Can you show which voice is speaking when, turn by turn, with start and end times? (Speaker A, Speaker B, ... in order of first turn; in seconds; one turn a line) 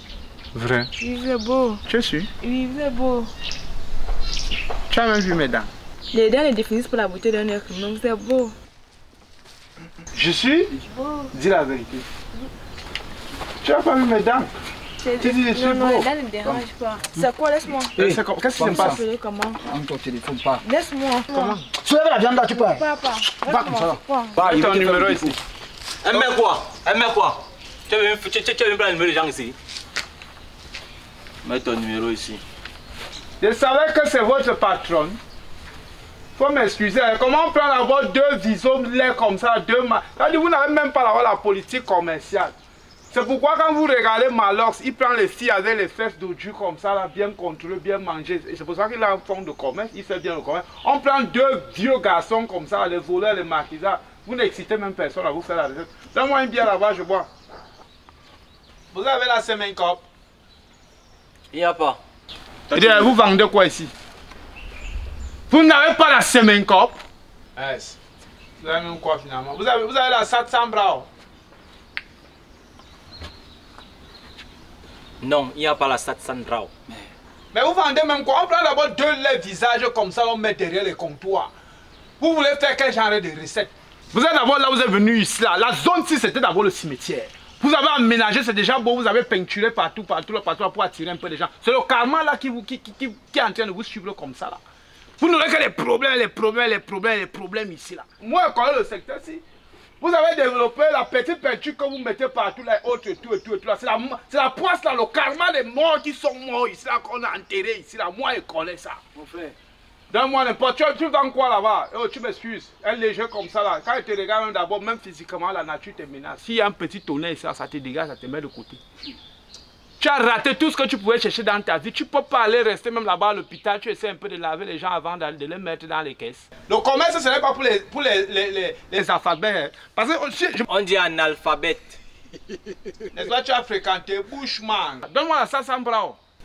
Speaker A: 0.5-0.9
Speaker B: 1.0-1.8
Speaker A: 1.9-2.3
Speaker B: 2.4-3.3
Speaker A: 4.9-5.7
Speaker B: 6.1-8.6
Speaker A: 10.1-10.8
Speaker B: 10.9-11.3
Speaker A: 11.3-12.1
Speaker A: 13.6-14.5
Speaker B: 15.0-18.0
Speaker A: 15.2-16.1
Speaker C: 18.0-19.0
Speaker A: 18.0-19.0
Speaker B: 18.6-19.6
Speaker C: 19.6-20.6
Speaker B: 20.6-21.6
Speaker A: 21.3-21.6
Speaker C: 21.8-22.9
Speaker B: 22.5-24.5
Speaker C: 23.4-25.4
Speaker A: 24.4-25.4
Speaker D: 26.0-29.6
Speaker D: 31.4-32.4
Speaker A: 33.4-35.2
Speaker A: 36.4-42.5
Speaker A: 43.1-57.3
Speaker A: 58.9-60.0
Speaker D: 61.5-62.0
Speaker D: 62.7-63.2
Speaker A: 62.7-63.9
Speaker A: 65.5-67.0
Speaker A: 67.6-68.0
Speaker A: 68.6-71.1
Speaker D: 75.2-76.7
Speaker A: 77.5-81.5
Speaker A: 82.2-94.6
Speaker A: 95.2-99.4
Speaker A: 100.0-109.0
Speaker C: 109.2-109.5
Speaker A: 110.1-118.8
Speaker A: 120.0-130.7
Speaker D: 130.7-132.0
Speaker A: 133.1-136.2